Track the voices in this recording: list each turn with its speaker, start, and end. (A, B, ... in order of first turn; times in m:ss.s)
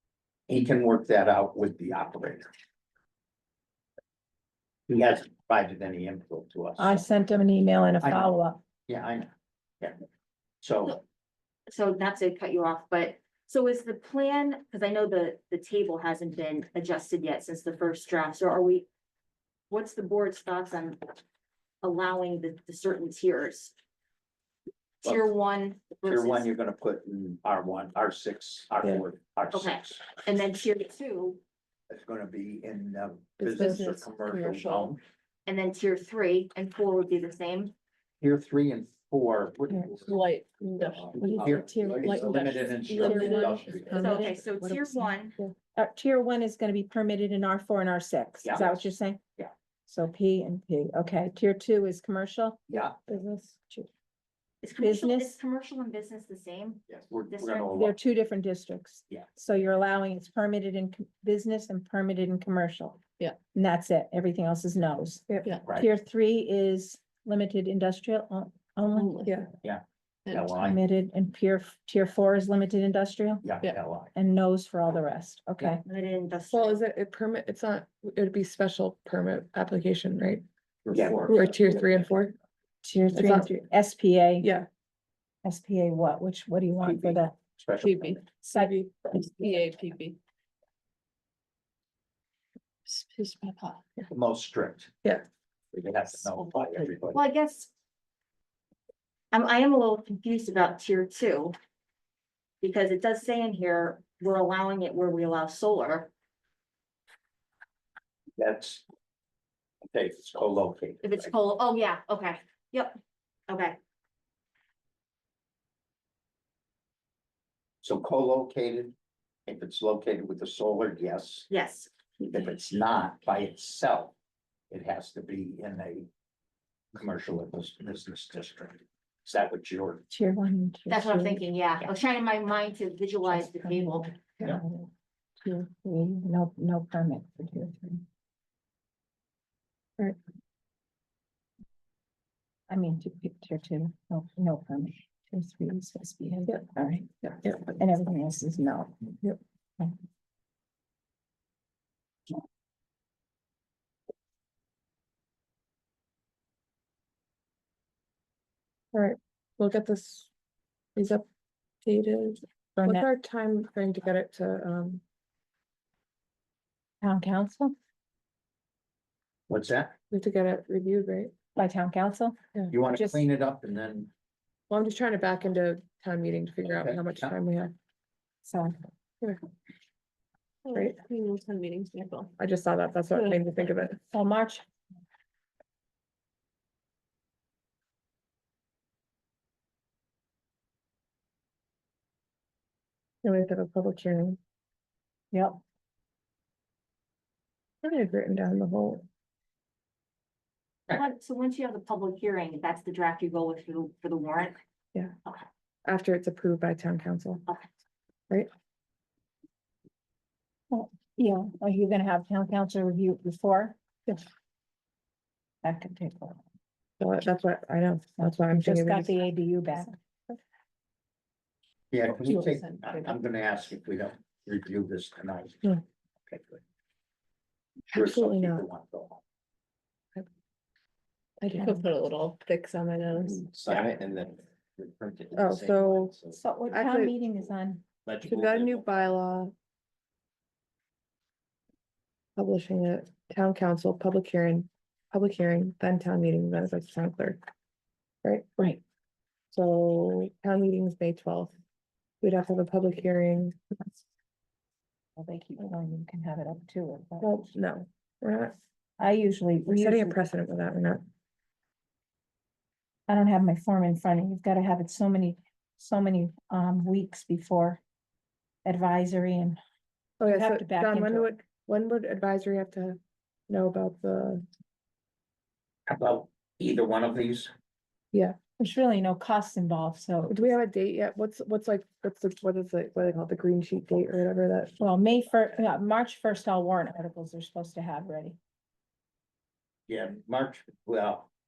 0:00.5-0:02.5 A
0:04.9-0:07.0 A
0:06.8-0:08.6 B
0:08.0-0:08.3 A
0:08.9-0:09.3 A
0:10.6-0:11.0 A
0:11.7-0:18.9 C
0:19.7-0:21.2 C
0:21.8-0:23.7 C
0:25.0-0:26.5 C
0:25.0-0:25.3 A
0:26.0-0:30.1 A
0:29.5-0:31.4 C
0:31.9-0:35.0 A
0:33.4-0:33.8 D
0:33.4-0:34.9 E
0:35.4-0:37.7 C
0:38.2-0:40.2 A
0:40.0-0:41.2 E
0:40.9-0:44.2 A
0:41.2-0:42.4 B
0:42.0-0:44.1 E
0:42.9-0:45.5 D
0:42.9-0:44.4 B
0:44.0-0:45.4 C
0:45.8-0:49.2 B
0:48.4-0:49.5 A
0:49.9-0:52.6 B
0:52.7-0:52.9 A
0:53.1-0:53.9 D
0:54.6-0:57.7 C
0:54.8-0:55.4 B
0:56.9-0:57.9 A
0:57.7-1:03.0 B
1:03.5-1:09.4 B
1:08.9-1:09.3 E
1:09.6-1:10.8 A
1:10.2-1:10.6 E
1:10.6-1:13.4 B
1:13.4-1:14.1 A
1:14.1-1:15.8 B
1:15.8-1:16.8 C
1:16.5-1:20.4 D
1:20.8-1:22.0 A
1:21.3-1:22.3 D
1:22.8-1:24.5 B
1:23.1-1:23.5 D
1:24.4-1:24.7 D
1:25.4-1:27.4 B
1:26.8-1:28.2 A
1:27.8-1:30.2 E
1:28.4-1:28.8 B
1:32.8-1:33.8 E
1:34.1-1:35.0 A
1:35.7-1:37.2 A
1:37.1-1:37.7 C
1:39.3-1:41.6 C
1:42.6-1:46.1 C
1:48.4-1:48.8 A
1:49.9-1:51.0 A
1:51.0-1:53.8 C
1:57.8-1:58.9 A
1:59.5-2:01.5 A
2:01.5-2:01.9 C
2:02.3-2:04.1 A
2:04.7-2:06.1 A
2:06.9-2:10.0 A
2:10.1-2:11.4 B
2:10.9-2:14.2 C
2:13.3-2:14.9 B
2:15.4-2:18.0 B
2:22.7-2:29.2 B
2:38.9-2:40.3 D
2:41.0-2:41.2 D
2:41.8-2:45.0 D
2:42.8-2:43.1 B
2:47.0-2:47.7 B
2:49.5-2:50.0 A
2:50.1-2:51.3 D
2:51.6-2:53.3 B
2:52.7-2:54.1 A
2:54.7-2:57.7 D
2:56.6-2:57.4 A
2:58.4-2:58.8 B
3:00.6-3:02.3 E
3:00.7-3:01.0 D
3:02.4-3:04.0 D
3:03.1-3:03.4 E
3:04.1-3:04.6 B
3:13.2-3:14.4 D
3:15.3-3:15.6 B
3:17.8-3:19.0 D
3:20.9-3:24.6 C
3:25.8-3:27.4 D
3:30.7-3:33.8 B
3:35.6-3:36.4 B
3:37.0-3:39.1 D
3:38.2-3:39.9 B
3:41.9-3:45.8 A
3:42.2-3:43.2 E
3:46.3-3:46.6 A
3:47.9-3:48.6 D
3:47.9-3:49.2 A
3:51.4-3:51.9 D
3:51.6-3:53.4 E
3:53.3-3:56.4 F
3:53.5-3:54.1 A
3:55.3-3:56.1 D
3:56.3-3:57.8 B
3:56.7-3:57.2 D
3:58.0-3:59.1 A
3:58.2-3:59.5 D
4:02.4-4:07.4 D
4:09.5-4:11.5 D
4:12.2-4:13.7 D
4:15.2-4:17.4 B
4:17.2-4:18.5 D
4:19.0-4:20.2 B
4:19.7-4:21.0 D
4:23.1-4:27.8 B
4:28.6-4:29.6 B
4:30.2-4:34.4 D
4:30.3-4:31.3 B
4:35.9-4:37.5 A
4:38.6-4:40.5 B
4:40.3-4:44.7 D
4:44.8-4:48.4 B
4:49.9-4:51.3 A